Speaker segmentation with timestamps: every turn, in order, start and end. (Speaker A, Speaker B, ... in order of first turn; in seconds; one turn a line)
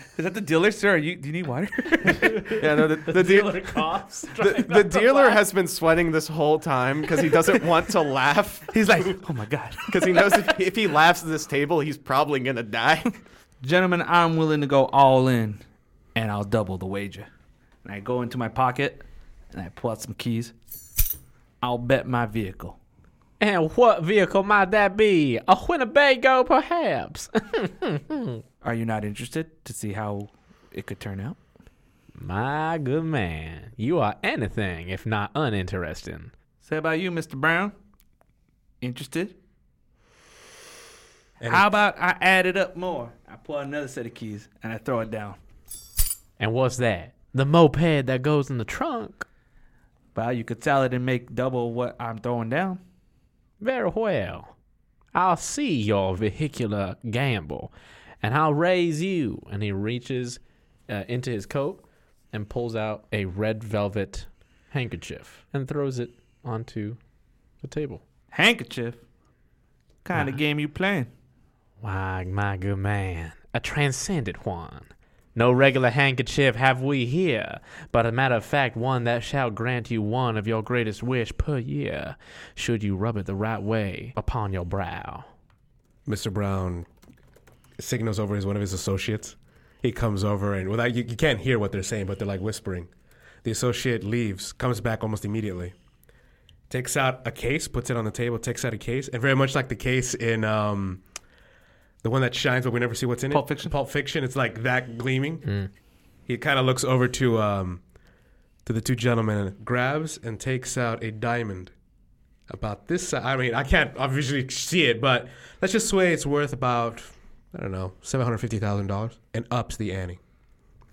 Speaker A: 0.1-2.6
Speaker B: 2.2-5.4
Speaker C: 2.5-9.2
Speaker A: 8.7-10.4
Speaker C: 9.9-13.2
Speaker A: 13.6-15.6
Speaker A: 16.1-17.3
Speaker A: 17.8-20.5
Speaker A: 21.6-22.8
Speaker B: 23.4-28.4
Speaker A: 28.6-31.4
Speaker B: 32.2-36.3
Speaker A: 36.6-37.8
Speaker A: 38.8-39.4
Speaker D: 41.4-41.8
Speaker A: 41.5-45.4
Speaker B: 46.4-49.3
Speaker A: 50.1-52.8
Speaker B: 53.6-54.5
Speaker B: 55.1-67.0
Speaker B: 67.6-68.0
Speaker A: 68.3-69.0
Speaker A: 70.0-71.1
Speaker B: 71.8-85.3
Speaker D: 86.1-86.9
Speaker D: 87.8-92.9
Speaker D: 93.4-95.7
Speaker D: 96.7-101.0
Speaker D: 102.0-105.5
Speaker A: 103.3-103.7
Speaker D: 106.3-107.8
Speaker D: 108.7-111.7
Speaker D: 112.5-120.2